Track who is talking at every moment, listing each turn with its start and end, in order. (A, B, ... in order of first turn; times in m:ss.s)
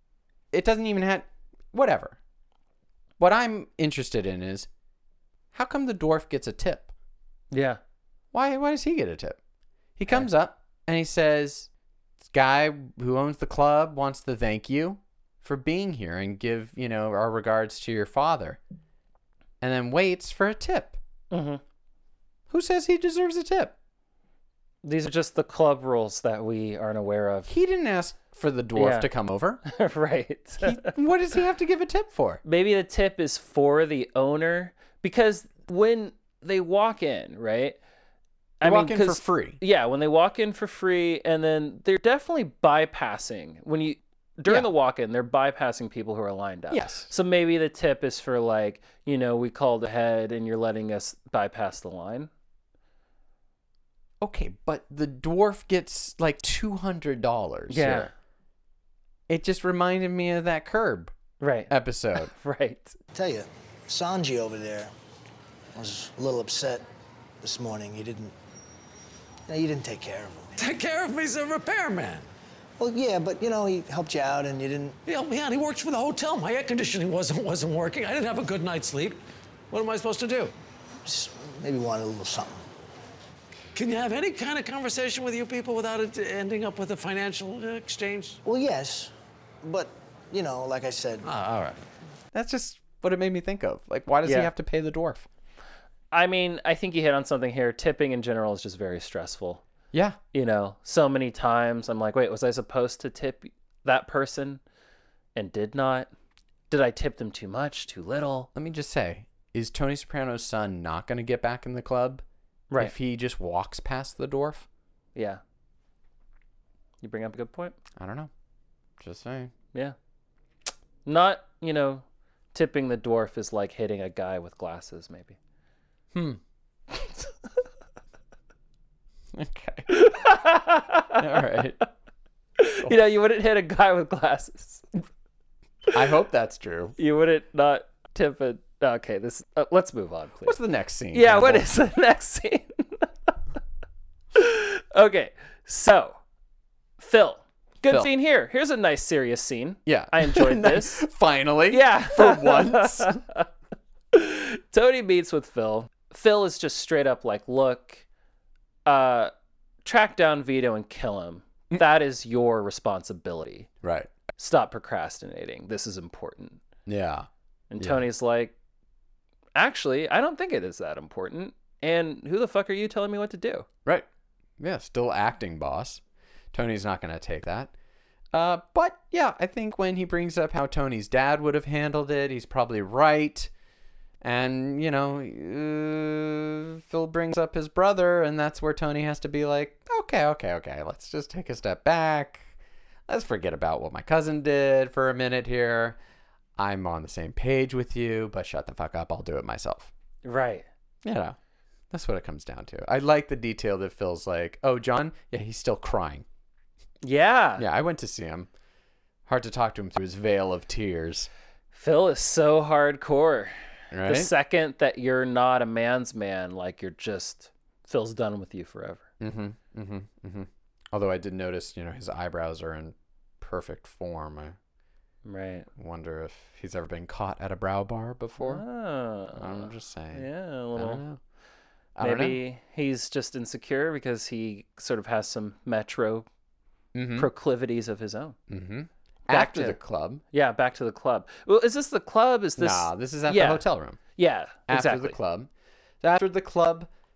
0:00.5-0:02.2 A
0:03.2-0:04.7 A
0:05.5-0:06.9 A
0:07.5-0:07.8 B
0:08.3-0:09.4 A
0:10.0-0:11.7 A
0:12.2-0:18.6 A
0:19.6-0:21.0 A
0:21.3-0:21.6 B
0:22.5-0:23.7 A
0:24.8-0:27.5 B
0:27.5-0:29.6 A
0:28.8-0:29.1 B
0:29.6-0:30.8 B
0:30.6-0:32.4 A
0:32.4-0:37.8 B
0:38.6-0:52.3 B
0:38.6-0:39.6 A
0:46.7-0:47.1 A
0:54.2-0:58.1 A
0:57.7-0:58.1 B
0:59.3-1:01.1 A
1:01.4-1:03.0 B
1:01.7-1:02.3 A
1:03.1-1:04.9 C
1:05.7-1:06.8 C
1:07.4-1:08.3 C
1:09.5-1:10.5 C
1:10.6-1:12.3 D
1:12.8-1:15.0 C
1:15.0-1:20.5 D
1:21.0-1:22.6 C
1:23.7-1:28.4 D
1:28.4-1:29.1 C
1:29.6-1:31.3 C
1:31.2-1:31.8 D
1:32.3-1:35.3 A
1:34.2-1:34.5 B
1:36.1-1:39.6 B
1:39.9-1:40.2 A
1:40.3-1:44.6 B
1:45.3-1:46.1 B
1:46.7-1:48.5 B
1:48.5-1:52.2 A
1:52.8-1:54.6 A
1:55.1-1:55.4 B
1:57.0-1:57.8 B
1:58.0-1:58.3 A
1:59.0-1:59.5 A
2:01.0-2:05.4 B
2:06.1-2:06.4 A
2:09.3-2:09.9 A
2:09.9-2:11.2 B
2:11.2-2:11.8 A
2:12.6-2:14.8 B
2:15.9-2:17.0 A
2:17.0-2:20.6 B
2:20.4-2:21.7 A
2:21.1-2:23.1 B
2:24.3-2:26.2 B
2:27.0-2:31.0 B
2:29.8-2:33.2 A
2:31.7-2:33.4 B
2:34.1-2:38.0 B
2:38.8-2:39.3 B
2:39.8-2:43.7 B
2:43.8-2:44.1 A
2:44.4-2:46.6 B
2:46.8-2:48.0 A
2:47.7-2:48.5 B
2:49.5-2:53.6 B
2:54.6-2:56.0 A
2:56.5-2:57.7 A
2:58.3-3:03.5 A
3:04.2-3:12.5 A
3:13.1-3:16.0 A
3:16.6-3:19.9 A
3:20.2-3:20.6 B
3:21.0-3:21.4 A
3:21.9-3:26.2 A
3:27.0-3:27.6 B
3:27.6-3:28.5 A
3:29.2-3:31.3 A
3:31.7-3:39.0 B
3:33.9-3:34.3 A
3:39.2-3:44.6 A
3:45.2-3:45.7 B
3:45.8-3:48.6 A
3:48.4-3:51.0 B
3:49.3-3:51.2 A
3:52.0-3:52.4 A
3:52.0-3:56.2 B
3:56.9-3:57.3 A
3:57.2-3:58.4 B
3:58.5-4:00.2 A
3:59.3-3:59.8 B
4:00.3-4:03.6 B
4:02.6-4:04.0 A
4:04.2-4:05.2 B
4:04.7-4:05.5 A
4:06.0-4:06.9 A